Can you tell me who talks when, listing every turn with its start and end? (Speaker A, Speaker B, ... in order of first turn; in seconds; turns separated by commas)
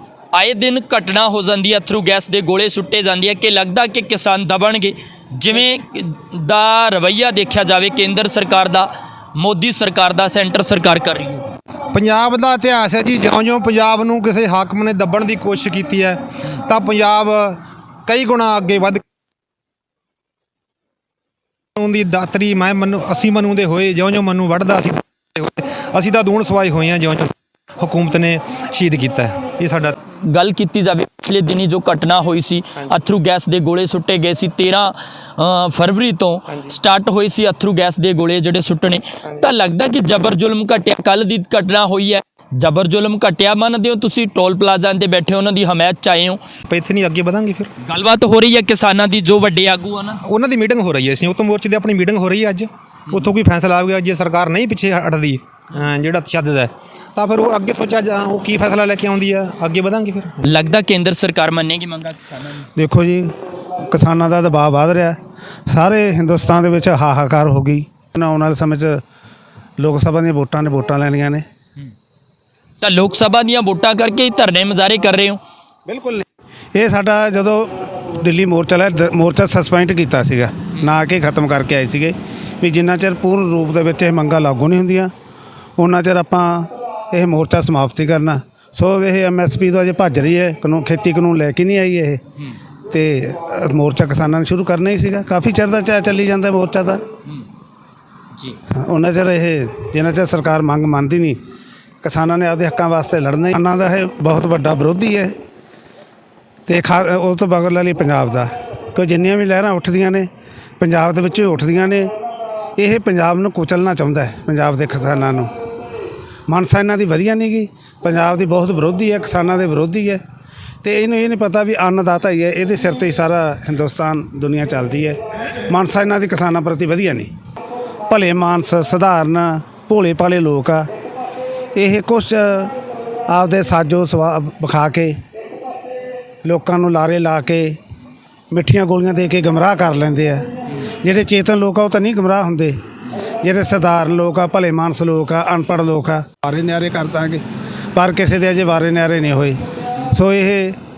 Speaker A: 0.3-11.6, Speaker B: 11.9-19.0, Speaker B: 21.8-30.0, Speaker A: 30.3-46.4, Speaker B: 46.7-47.7, Speaker A: 47.8-50.2, Speaker B: 50.2-60.4, Speaker A: 60.4-62.7, Speaker C: 62.8-63.3, Speaker C: 63.9-65.2, Speaker C: 65.7-69.0, Speaker C: 69.8-71.5, Speaker A: 72.8-75.4, Speaker C: 75.9-85.1, Speaker C: 85.8-92.2, Speaker C: 92.9-97.0, Speaker C: 98.8-101.4, Speaker C: 102.0-105.3, Speaker C: 106.7-110.3, Speaker C: 110.8-112.1, Speaker C: 112.8-115.5, Speaker C: 116.5-120.2, Speaker C: 120.8-125.2, Speaker C: 125.7-127.3, Speaker C: 128.1-130.9, Speaker C: 131.8-132.7, Speaker C: 133.3-135.2, Speaker C: 136.4-137.8, Speaker C: 138.5-140.4, Speaker C: 141.0-142.8, Speaker C: 143.4-147.4, Speaker C: 147.9-149.6, Speaker C: 150.1-150.8